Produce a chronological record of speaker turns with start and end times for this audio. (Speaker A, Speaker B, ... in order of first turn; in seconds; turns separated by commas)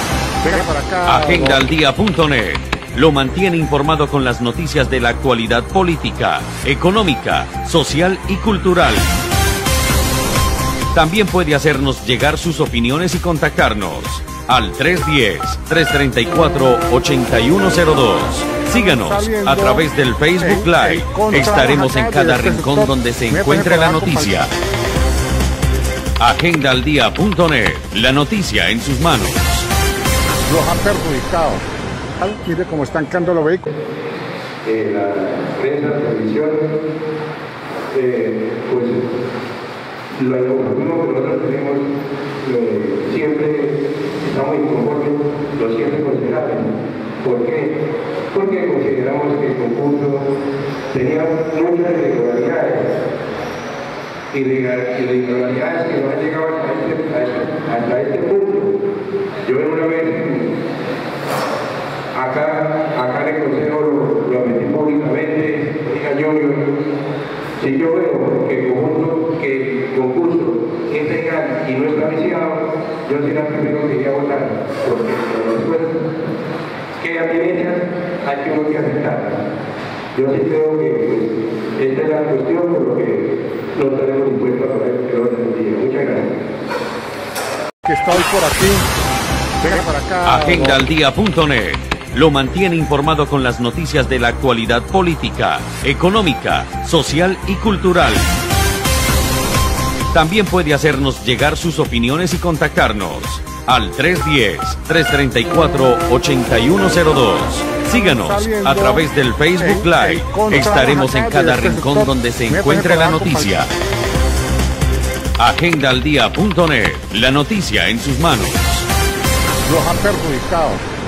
Speaker A: 0.4-1.6, Speaker B: 1.1-9.1, Speaker B: 10.9-24.5, Speaker A: 18.7-19.9, Speaker A: 20.4-24.4, Speaker B: 26.2-29.7, Speaker A: 30.5-31.6, Speaker A: 32.2-33.7, Speaker C: 34.6-36.7, Speaker C: 37.9-39.0, Speaker C: 40.2-41.9, Speaker C: 42.4-47.8, Speaker C: 48.3-50.3, Speaker C: 50.9-53.0, Speaker C: 54.3-58.7, Speaker C: 59.5-60.5, Speaker C: 62.1-66.7, Speaker C: 67.6-76.0, Speaker C: 77.0-79.4, Speaker C: 80.1-86.3, Speaker A: 87.8-88.9, Speaker A: 89.6-90.8, Speaker B: 90.3-98.3, Speaker B: 100.1-113.7, Speaker A: 107.9-109.1, Speaker A: 109.6-113.6, Speaker B: 115.4-118.9, Speaker A: 119.7-120.8